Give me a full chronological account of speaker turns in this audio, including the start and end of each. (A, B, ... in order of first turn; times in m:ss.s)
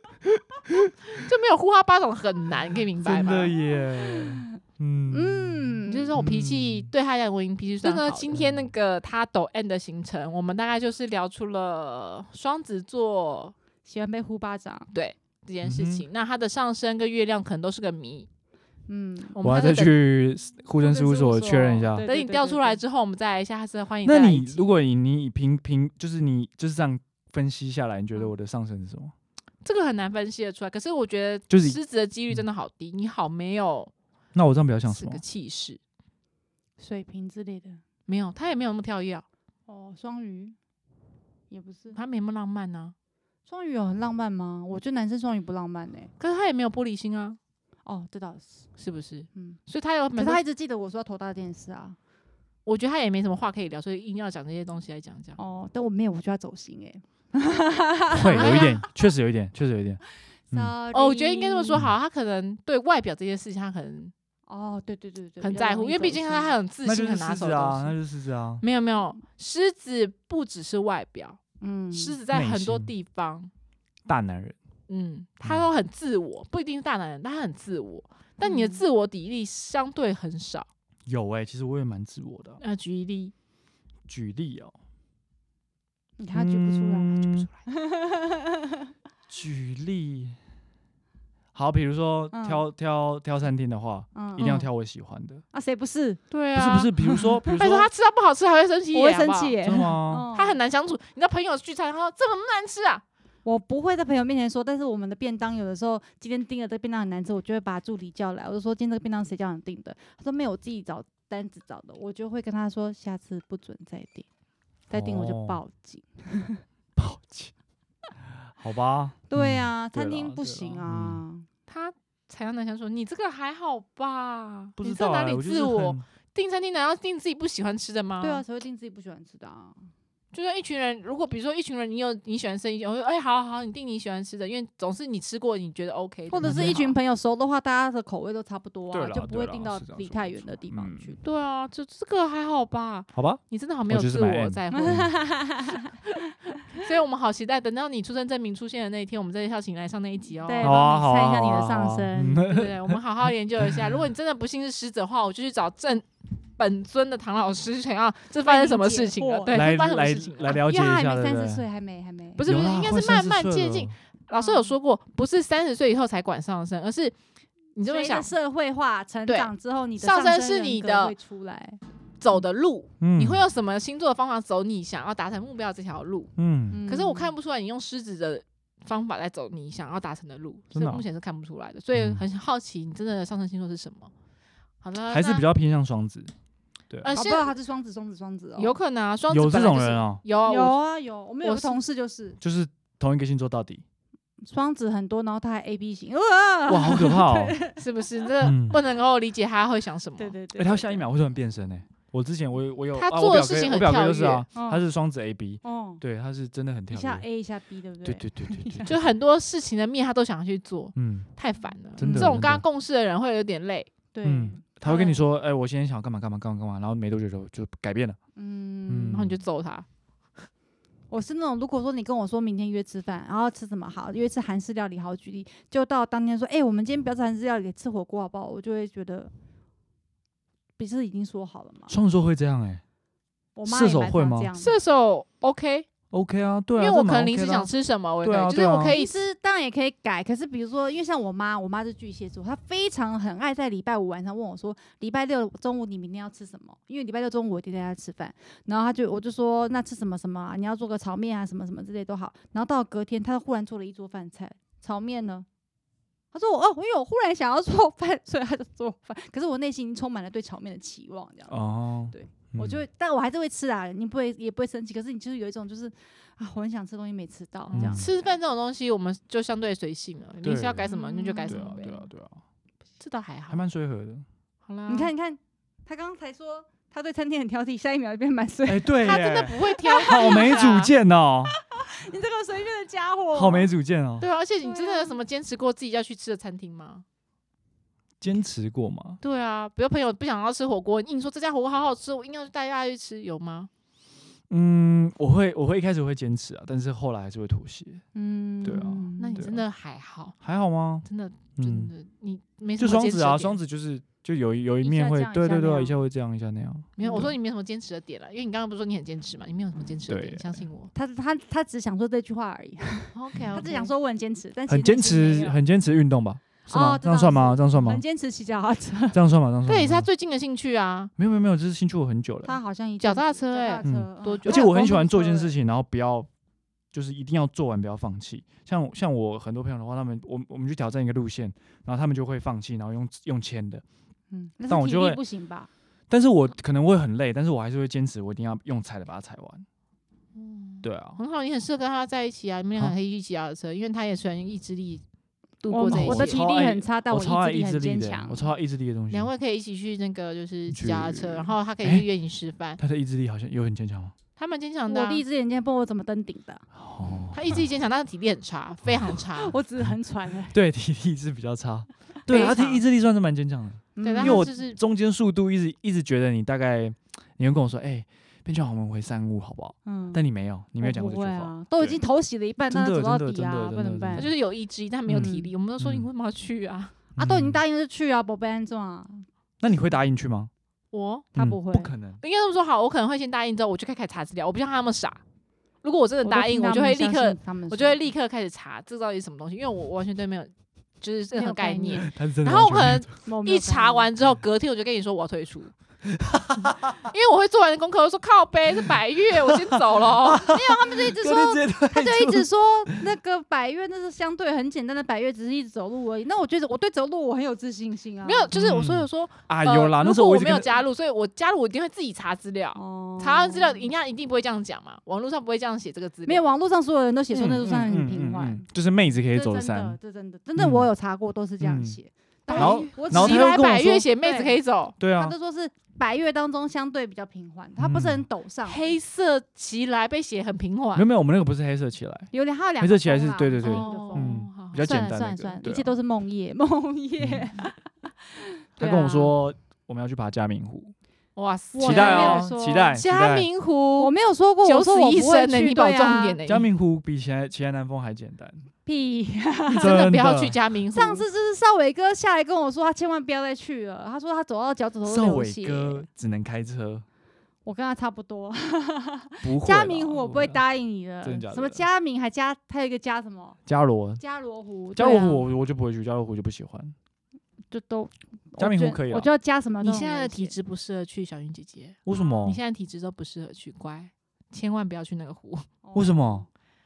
0:01.1-0:03.5 A
0:03.0-0:06.9 B
0:04.1-0:04.6 C
0:05.1-0:06.2 C
0:05.9-0:13.6 A
0:07.8-0:08.2 C
0:08.0-0:08.7 B
0:13.8-0:14.9 C
0:14.9-0:18.3 A
0:15.6-0:16.0 B
0:18.9-0:19.4 C
0:19.4-0:20.0 A
0:19.4-0:22.1 B
0:20.8-0:22.8 C
0:22.0-0:24.7 A
0:24.0-0:29.1 B
0:29.6-0:33.9 A
0:31.5-0:31.8 B
0:34.3-0:35.2 B
0:34.9-0:35.8 A
0:36.8-0:37.8 C
0:38.1-0:39.2 A
0:39.7-0:40.6 C
0:41.5-0:42.0 C
0:41.9-0:42.9 A
0:43.5-0:46.1 C
0:46.2-0:47.4 A
0:47.9-0:48.6 C
0:48.8-0:50.4 A
0:49.4-0:49.6 C
0:50.2-0:52.0 C
0:52.7-0:55.4 A
0:55.4-0:58.9 C
0:58.1-1:00.0 B
0:58.4-0:58.8 A
1:00.5-1:01.8 C
1:00.9-1:04.1 A
1:04.5-1:06.6 C
1:05.4-1:08.0 A
1:06.8-1:08.6 B
1:08.6-1:11.4 A
1:11.6-1:12.2 C
1:11.9-1:13.5 A
1:12.3-1:12.9 B
1:14.1-1:14.6 B
1:14.9-1:20.7 A
1:18.4-1:18.8 C
1:21.1-1:22.6 B
1:22.6-1:23.3 A
1:24.1-1:24.8 B
1:26.2-1:28.9 C
1:26.3-1:27.5 B
1:29.3-1:30.4 B
1:31.5-1:35.4 B
1:32.3-1:32.6 C
1:34.1-1:34.7 C
1:35.5-1:36.2 C
1:36.3-1:36.9 A
1:36.6-1:37.9 B
1:37.0-1:37.6 C
1:37.6-1:39.6 A
1:38.9-1:40.6 C
1:39.6-1:40.3 B
1:40.3-1:43.0 A
1:43.4-1:54.2 C
1:54.9-1:56.6 C
1:54.9-1:55.6 B
1:57.0-1:57.5 B
1:58.4-2:01.2 B
1:59.3-2:01.5 C
2:01.7-2:08.4 A
2:04.8-2:06.0 B
2:08.2-2:09.9 C
2:10.3-2:17.0 A
2:16.3-2:21.2 C
2:16.4-2:16.9 B
2:18.9-2:21.1 B
2:21.2-2:25.1 A
2:23.1-2:25.1 B
2:24.7-2:26.3 C
2:26.7-2:30.8 A
2:30.5-2:32.5 C
2:30.6-2:33.0 B
2:32.5-2:40.6 A
2:33.6-2:34.0 B
2:38.4-2:39.7 C
2:39.5-2:41.7 B
2:40.5-2:42.5 C
2:42.4-2:47.2 A
2:42.4-2:43.9 B
2:44.4-2:44.7 C
2:47.8-2:48.3 A
2:47.8-2:51.8 C
2:49.3-2:51.1 A
2:52.2-2:56.3 A
2:53.0-2:53.5 B
2:56.4-2:56.8 B
2:56.7-2:57.3 C
2:56.9-3:04.1 A
3:00.8-3:01.0 B
3:02.0-3:02.2 B
3:04.8-3:05.5 A
3:05.1-3:06.3 B
3:07.0-3:07.5 A
3:07.1-3:08.8 C
3:08.6-3:10.8 A
3:09.3-3:10.2 B
3:10.5-3:12.4 C
3:11.4-3:11.8 A
3:12.4-3:13.8 B
3:14.4-3:17.8 C
3:16.7-3:17.6 B
3:17.8-3:20.4 A
3:18.4-3:18.8 B
3:20.2-3:21.0 C
3:20.6-3:27.2 B
3:23.0-3:24.5 A
3:24.6-3:24.8 C
3:25.6-3:26.0 C
3:26.9-3:29.0 C
3:28.0-3:28.9 B
3:28.9-3:33.9 A
3:31.0-3:31.3 B
3:32.0-3:32.6 B
3:32.0-3:32.4 C
3:34.1-3:35.2 C
3:34.2-3:38.2 B
3:38.4-3:39.2 C
3:38.9-3:39.4 B
3:39.1-3:39.9 A
3:41.1-3:49.3 C
3:50.8-3:51.9 C
3:51.9-3:52.8 B
3:53.6-3:54.8 C
3:53.7-3:54.5 B
3:54.6-3:55.9 A
3:56.1-3:57.7 B
3:56.8-3:59.2 A
3:58.2-3:59.0 B
3:58.9-4:15.5 C
4:16.3-4:28.0 C
4:21.5-4:22.8 B
4:27.7-4:32.0 A
4:27.7-4:28.1 B
4:30.4-4:30.9 B
4:30.9-4:32.0 C
4:31.5-4:32.4 B
4:33.0-4:33.6 A
4:33.5-4:34.2 B
4:34.7-4:35.1 A
4:34.9-4:40.6 C
4:38.7-4:41.5 B
4:39.0-4:40.9 A
4:41.5-4:43.7 C
4:43.3-4:44.3 B
4:44.2-4:47.0 A
4:44.6-4:45.2 C
4:48.2-4:49.2 B
4:49.2-4:53.7 A
4:54.5-4:58.0 B
4:58.1-4:59.5 C
4:58.6-4:59.6 B
4:59.2-5:00.4 A
5:00.4-5:01.0 B
5:01.0-5:03.6 A
5:01.6-5:01.9 B
5:02.8-5:07.3 B
5:04.8-5:06.0 C
5:07.0-5:10.9 A
5:07.0-5:07.3 C
5:10.1-5:10.6 B
5:10.9-5:15.6 C
5:13.1-5:13.9 A
5:14.7-5:18.0 B
5:16.7-5:19.2 C
5:19.1-5:20.1 B
5:19.7-5:21.1 A
5:21.2-5:22.6 B
5:22.4-5:25.5 C
5:23.0-5:24.7 A
5:23.8-5:26.3 B
5:26.9-5:33.8 B
5:34.3-5:35.7 C
5:34.7-5:35.2 B
5:36.1-5:39.7 B
5:40.4-5:45.0 A
5:40.8-5:41.2 B
5:45.6-5:46.4 A
5:45.7-5:48.4 C
5:45.9-5:49.3 B
5:49.1-5:52.8 A
5:50.7-5:52.1 B
5:52.8-5:54.2 B
5:54.4-5:55.2 A
5:54.9-5:56.6 C
5:56.8-5:57.5 B
5:57.3-5:59.6 A
5:59.4-6:00.6 C
6:00.5-6:12.0 B
6:02.3-6:02.8 A
6:02.3-6:02.6 C
6:04.0-6:04.5 C
6:04.0-6:04.8 A
6:09.8-6:10.2 C
6:10.8-6:14.3 C
6:12.7-6:14.3 B
6:14.2-6:17.0 A
6:15.1-6:16.1 B
6:15.2-6:15.5 C
6:17.2-6:17.6 B
6:17.2-6:19.2 C
6:19.6-6:20.5 B
6:20.9-6:21.3 A
6:21.4-6:22.2 B
6:21.4-6:21.9 C
6:22.2-6:25.2 A
6:25.8-6:35.7 A
6:26.2-6:28.0 C
6:31.3-6:32.1 C
6:32.0-6:33.1 B
6:33.2-6:34.1 C
6:36.1-6:37.0 B
6:37.0-6:40.5 A
6:39.3-6:43.1 B
6:40.4-6:48.5 C
6:48.2-6:56.5 A
6:48.5-6:50.8 B
6:52.8-6:53.9 C
6:56.2-6:58.7 C
6:57.3-7:00.0 B
6:59.3-7:03.6 C
7:00.6-7:00.9 B
7:01.6-7:02.0 B
7:02.5-7:05.0 A
7:02.6-7:04.0 B
7:04.2-7:08.8 C
7:05.0-7:05.3 B
7:07.8-7:08.2 B
7:08.6-7:11.0 A
7:11.0-7:15.9 B
7:12.3-7:19.3 C
7:13.6-7:14.8 A
7:17.2-7:17.5 B
7:18.8-7:21.0 B
7:21.4-7:26.7 A
7:21.7-7:23.0 C
7:21.8-7:23.5 B
7:24.0-7:26.4 C
7:26.5-7:28.7 B
7:28.9-7:30.1 C
7:29.7-7:30.6 B
7:29.8-7:31.2 A
7:31.0-7:36.0 C
7:35.0-7:37.0 B
7:37.6-7:43.6 C
7:39.4-7:40.6 B
7:41.2-7:41.8 B
7:43.7-7:44.2 B
7:44.2-7:45.4 C
7:45.0-7:47.0 B
7:47.7-7:50.5 C
7:48.6-7:49.3 B
7:49.8-7:55.7 A
7:52.0-7:52.6 B
7:55.8-7:56.4 C
7:56.0-7:56.5 B